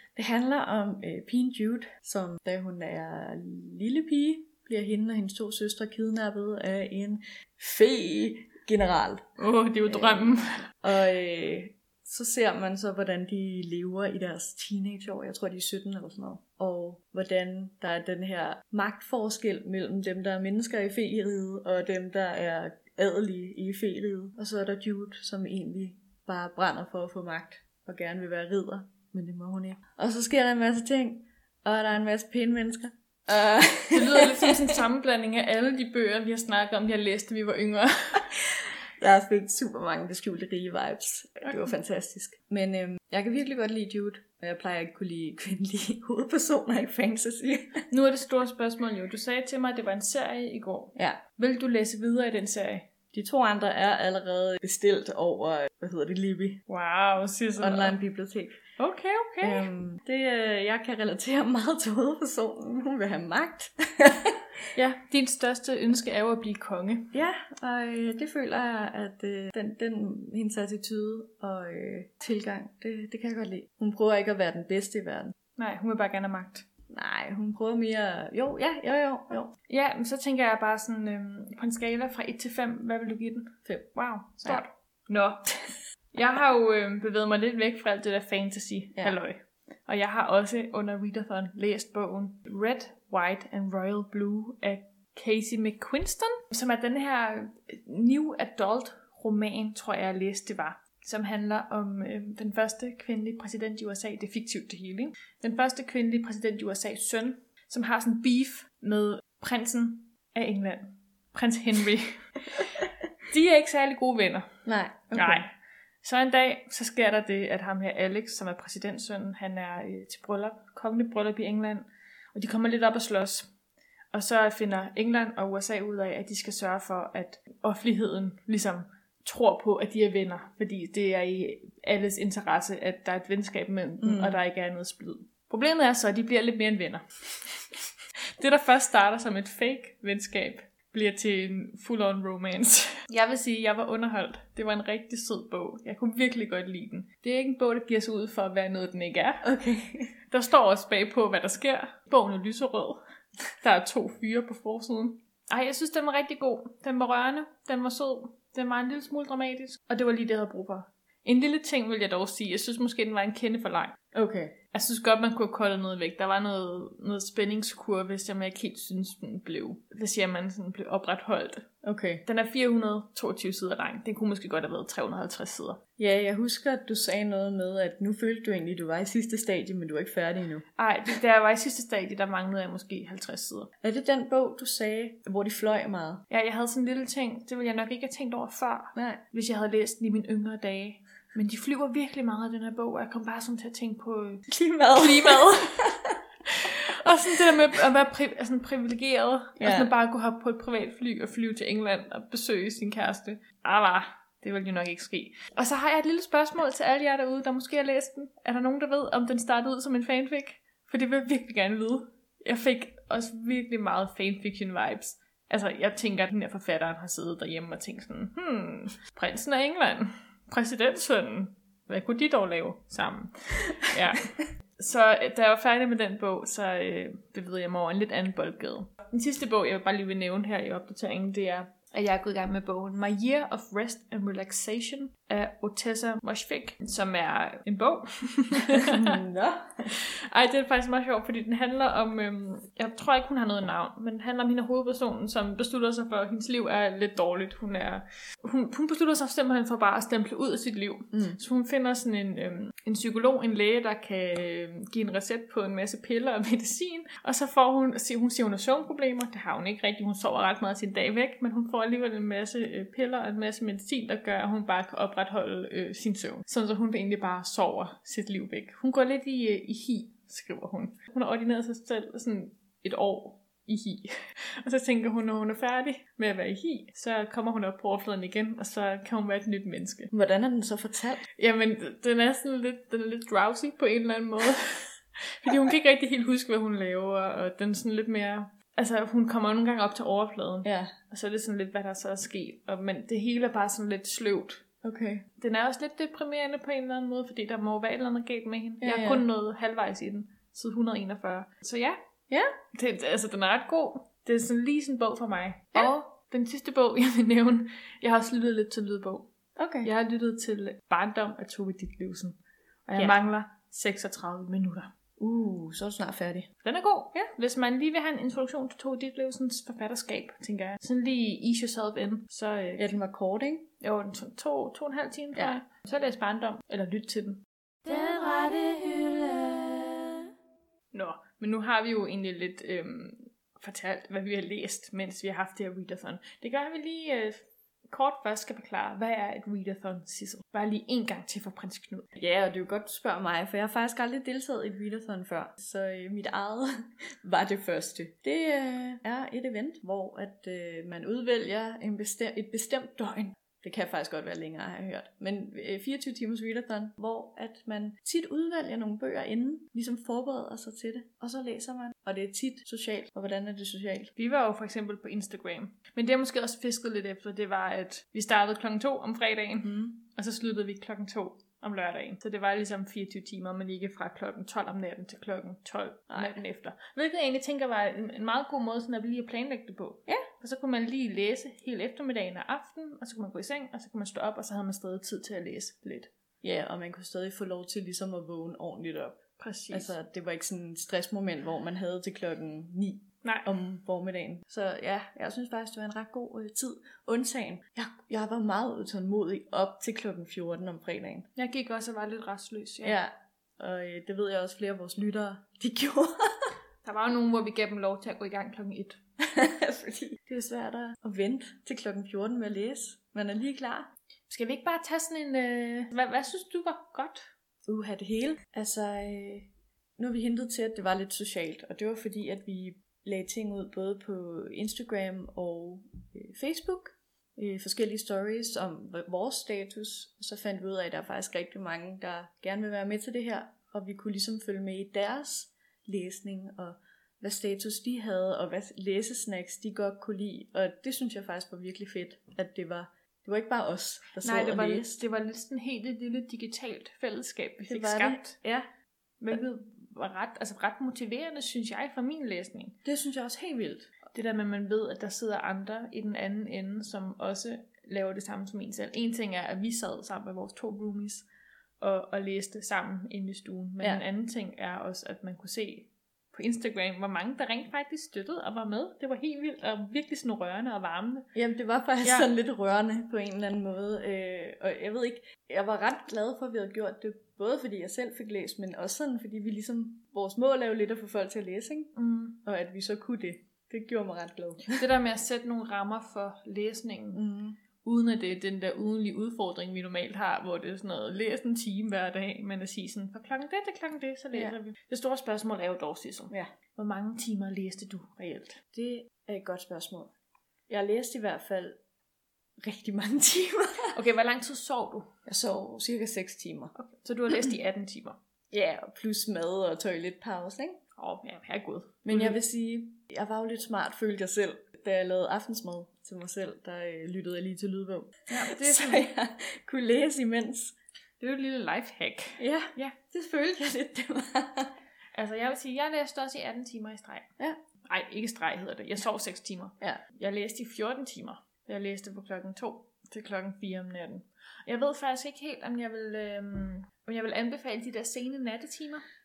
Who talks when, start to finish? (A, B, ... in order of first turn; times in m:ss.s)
0:00.2-0:34.6 A
0:09.4-0:10.7 B
0:33.9-0:38.4 B
0:38.4-0:47.9 A
0:47.9-0:52.9 B
0:51.0-0:51.2 A
0:53.1-0:56.6 A
0:56.7-0:58.0 B
0:57.6-0:58.6 A
0:58.8-0:59.7 B
0:59.4-1:04.5 A
1:04.8-1:07.1 B
1:07.1-1:15.4 A
1:15.6-1:16.6 B
1:16.9-1:19.5 A
1:19.7-1:54.6 B
1:23.6-1:24.6 A
1:54.6-1:55.4 A
1:55.1-1:55.5 B
1:56.0-2:03.5 B
2:04.1-2:17.6 B
2:14.0-2:14.4 A
2:18.4-2:29.5 B
2:29.4-2:30.1 A
2:30.3-2:33.0 B
2:33.6-2:44.0 B
2:44.1-2:44.6 A
2:44.7-2:51.7 B
2:51.8-2:52.2 A
2:52.2-2:55.8 B
2:56.0-3:00.6 A
3:00.8-3:03.7 B
3:03.8-3:06.2 A
3:06.3-3:14.4 B
3:09.0-3:09.2 A
3:14.5-3:16.2 A
3:15.0-3:59.2 B
3:19.6-3:19.9 A
3:58.8-3:59.9 A
3:59.9-4:40.1 B
4:11.1-4:11.4 A
4:40.1-4:41.3 A
4:41.3-4:54.6 B
4:50.6-4:50.9 A
4:54.8-4:55.2 A
4:55.4-5:02.0 B
4:58.8-4:59.2 A
5:02.7-5:09.3 B
5:09.6-5:09.9 A
5:09.8-5:14.9 B
5:15.2-5:16.5 A
5:16.6-5:22.9 B
5:22.8-5:23.6 A
5:23.8-5:27.4 B
5:25.3-5:25.6 A
5:27.8-5:30.3 C
5:30.9-5:42.1 B
5:42.2-6:04.1 A
6:04.2-6:26.1 B
6:09.6-6:10.0 A
6:16.1-6:16.4 A
6:26.4-6:41.3 A
6:29.4-6:29.9 B
6:41.4-6:43.0 B
6:42.8-6:46.5 A
6:46.8-6:49.0 B
6:49.2-6:53.9 A
6:54.3-6:57.3 B
6:57.6-7:25.0 A
7:24.2-7:28.3 B
7:27.6-7:28.6 A
7:29.2-7:32.8 B
7:32.8-7:33.9 A
7:34.1-7:41.2 B
7:41.8-7:51.3 B
7:51.3-8:04.8 A
7:52.0-7:52.3 B
8:01.9-8:02.4 B
8:04.8-8:07.2 B
8:07.1-8:07.6 A
8:07.8-8:18.6 B
8:18.7-8:20.1 A
8:20.7-8:21.8 A
8:22.6-8:24.0 A
8:23.9-8:25.1 B
8:25.3-8:26.7 A
8:26.7-8:28.2 B
8:28.5-8:30.8 A
8:31.0-8:32.4 B
8:32.0-8:40.8 A
8:38.3-8:39.1 B
8:41.2-8:43.0 B
8:42.4-8:44.7 A
8:45.1-8:47.3 B
8:47.8-8:59.0 B